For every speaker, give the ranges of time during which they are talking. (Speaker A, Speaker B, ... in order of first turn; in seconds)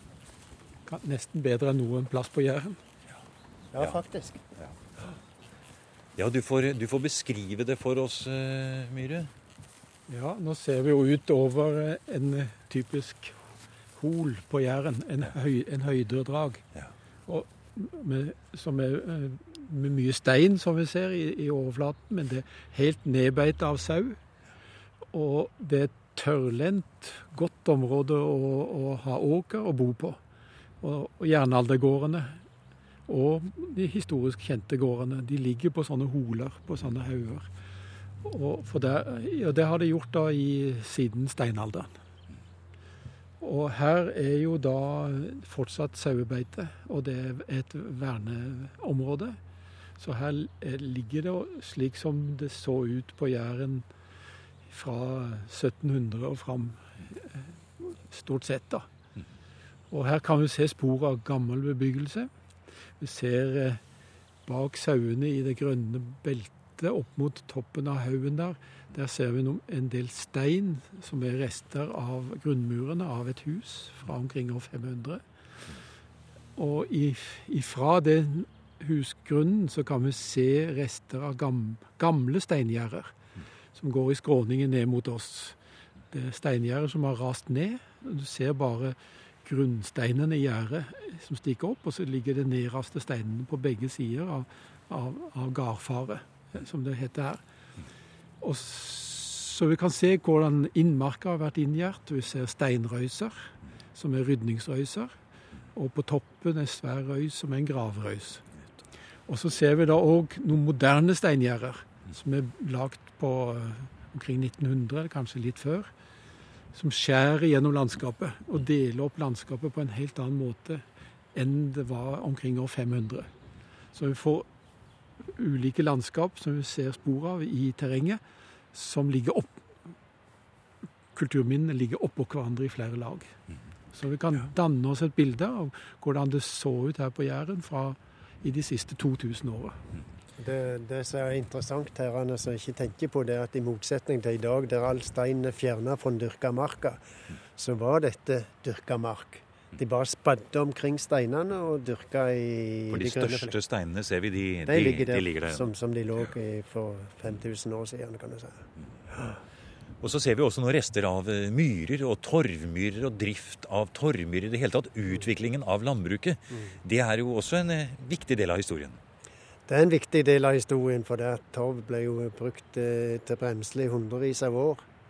Speaker A: 0.8-2.8, 10.1-13.3, 14.0-16.6, 17.3-24.2, 25.1-30.2, 30.8-32.4, 33.1-37.5, 38.2-41.9, 43.4-49.4, 50.0-53.9, 54.7-58.9, 59.9-62.3, 63.0-63.8, 64.5-75.2, 76.5-83.1, 83.7-85.6, 86.1-97.4, 98.4-105.1, 105.7-108.4, 109.3-115.9, 116.7-120.8, 121.3-123.3, 123.9-124.5, 125.3-128.2, 128.7-129.6, 131.1-133.3, 133.9-139.8
Speaker B: 3.7-4.4, 140.4-147.0, 147.6-153.5, 154.7-158.6, 169.7-174.8
Speaker C: 6.2-9.3, 152.9-155.7, 160.0-169.0